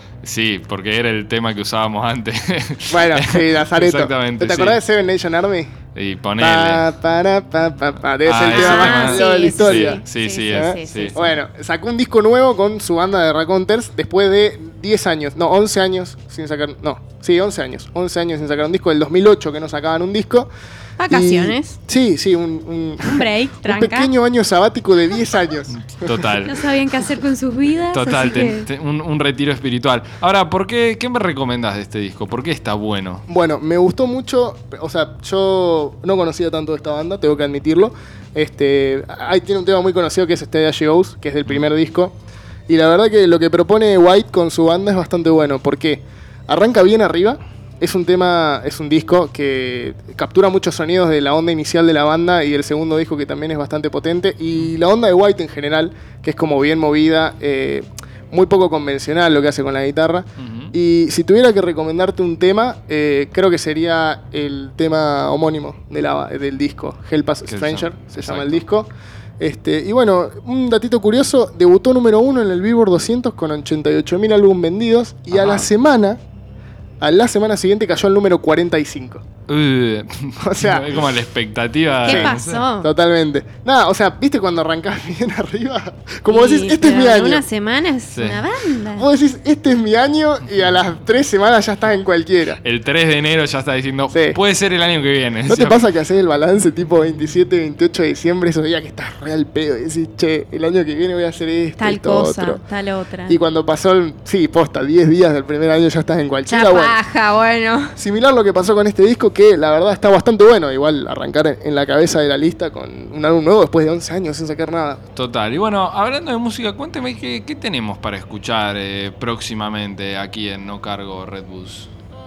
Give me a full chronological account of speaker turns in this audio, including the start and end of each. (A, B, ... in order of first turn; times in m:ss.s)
0:00.2-0:04.8 A
0:02.9-0:05.7 B
0:05.9-0:06.9 A
0:06.4-0:20.5 B
0:08.2-0:11.2 A
0:08.5-0:11.3 C
0:21.0-0:21.8 C
0:21.1-0:25.8 B
0:23.0-0:24.1 C
0:25.7-0:26.6 A
0:26.4-0:28.7 C
0:27.9-0:33.2 A
0:33.3-0:42.1 B
0:42.7-1:08.9 B
1:00.4-1:00.7 A
1:07.4-1:08.6 A
1:09.4-1:16.2 B
1:15.3-1:15.7 A
1:17.0-1:19.2 B
1:19.5-1:22.6 A
1:20.4-1:20.9 B
1:22.0-1:22.9 C
1:22.1-1:27.4 B
1:26.3-1:29.1 C
1:28.1-1:28.4 A
1:29.0-1:32.6 B
1:32.6-1:35.8 A
1:34.1-1:34.4 B
1:35.5-1:42.6 B
1:41.8-1:43.4 C
1:43.3-1:47.0 B
1:46.5-1:48.0 C
1:48.0-1:55.0 B
1:55.2-2:01.9 A